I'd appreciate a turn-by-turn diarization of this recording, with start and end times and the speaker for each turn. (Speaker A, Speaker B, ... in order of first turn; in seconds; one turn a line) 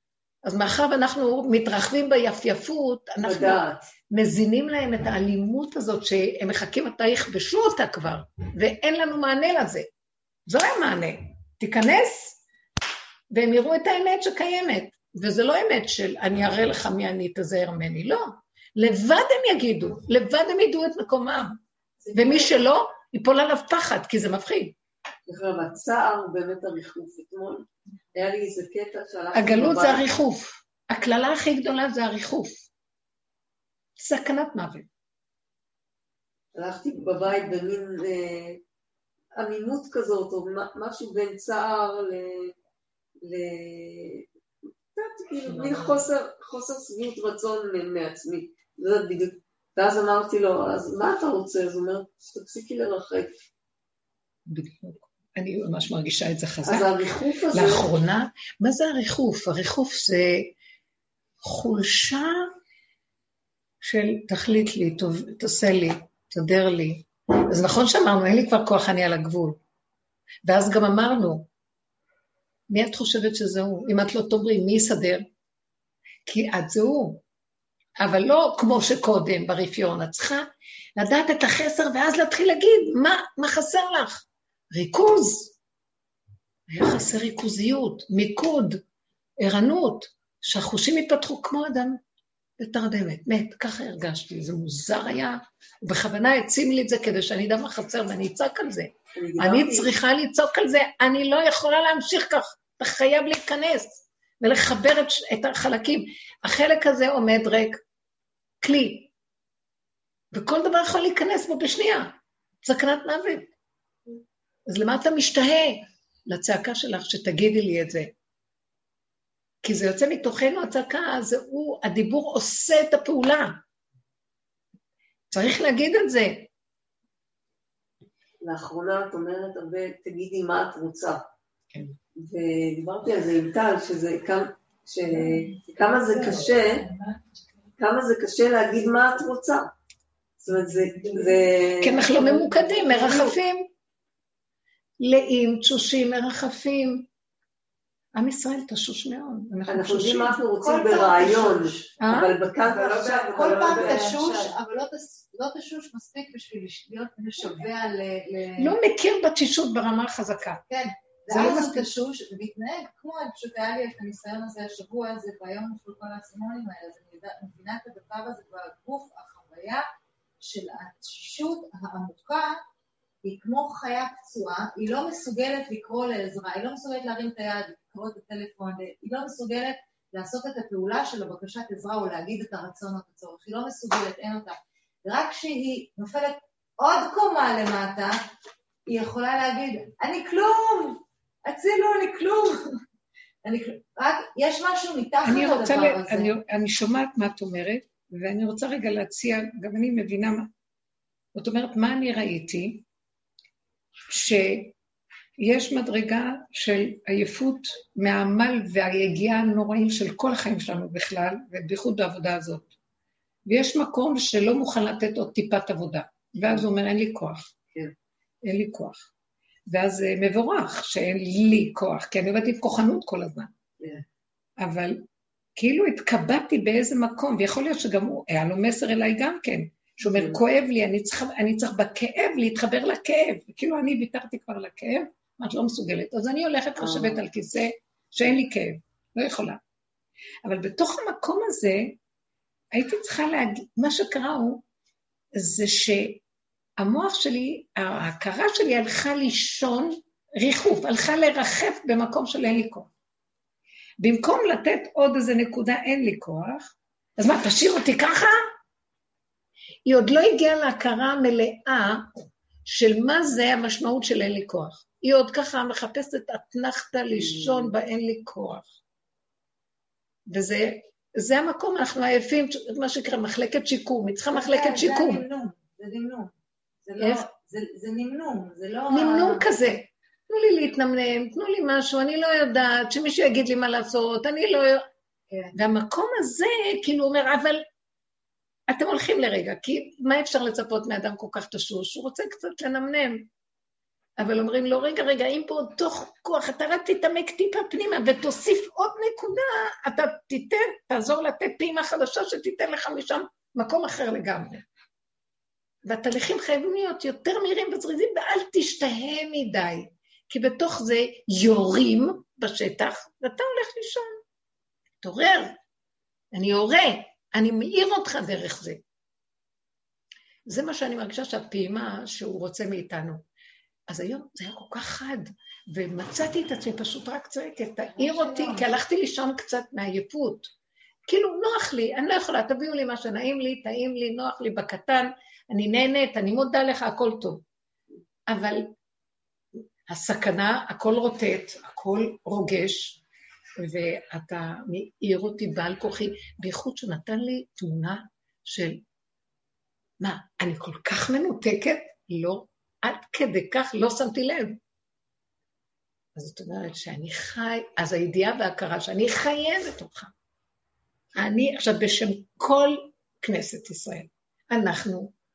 Speaker A: 0.4-9.9
Speaker B: 3.2-3.9
Speaker A: 10.5-12.4
Speaker A: 13.3-21.6
Speaker A: 22.1-24.8
Speaker B: 25.3-30.1
Speaker A: 29.3-32.7
Speaker A: 34.0-34.9
Speaker B: 36.5-38.6
Speaker B: 39.4-42.5
Speaker B: 43.2-44.3
Speaker B: 45.0-53.3
Speaker A: 45.5-46.0
Speaker A: 54.5-60.5
Speaker B: 56.6-57.9
Speaker A: 61.4-62.5
Speaker A: 63.8-69.6
Speaker A: 70.5-71.5
Speaker A: 72.7-75.3
Speaker A: 76.3-77.2
Speaker A: 78.0-85.6
Speaker A: 86.7-88.8
Speaker A: 89.4-92.0
Speaker A: 92.6-107.8
Speaker B: 99.2-99.9
Speaker A: 108.6-109.1
Speaker A: 110.3-113.5
Speaker A: 114.7-118.1
Speaker A: 119.6-123.6
Speaker A: 125.3-126.5
Speaker B: 128.4-131.2
Speaker B: 132.2-136.9
Speaker C: 136.4-137.2
Speaker B: 137.8-139.7
Speaker B: 140.4-143.4
Speaker A: 141.8-143.7
Speaker A: 145.0-147.1
Speaker A: 148.2-150.4
Speaker B: 149.7-154.5
Speaker C: 150.6-151.8
Speaker A: 152.0-152.4
Speaker C: 152.7-158.8
Speaker A: 158.6-160.6
Speaker C: 160.7-169.8
Speaker A: 161.3-161.9
Speaker C: 170.4-172.6
Speaker C: 173.2-188.2
Speaker C: 188.9-192.7
Speaker C: 193.4-196.3
Speaker A: 195.2-200.5
Speaker A: 201.3-202.8
Speaker A: 204.1-204.7
Speaker A: 205.4-212.7
Speaker A: 213.5-217.5
Speaker A: 218.4-219.1
Speaker A: 219.7-223.5
Speaker A: 224.6-239.6
Speaker B: 230.1-230.4
Speaker A: 240.4-242.0
Speaker A: 242.7-244.6
Speaker A: 245.3-246.2
Speaker A: 246.8-252.9
Speaker A: 254.0-258.5
Speaker A: 259.9-268.7
Speaker A: 270.3-275.2
Speaker C: 274.3-279.5
Speaker A: 277.0-277.3
Speaker A: 278.9-284.9
Speaker A: 285.5-287.6
Speaker A: 288.7-293.3
Speaker A: 294.2-304.6
Speaker A: 305.9-314.2
Speaker A: 315.0-315.6
Speaker A: 316.3-318.8
Speaker A: 320.5-323.2
Speaker A: 323.9-330.5
Speaker C: 327.9-328.7
Speaker A: 331.1-337.4
Speaker A: 338.3-338.7
Speaker A: 339.9-343.0
Speaker A: 343.6-348.8
Speaker A: 350.0-354.6
Speaker A: 356.2-360.1
Speaker A: 361.2-365.1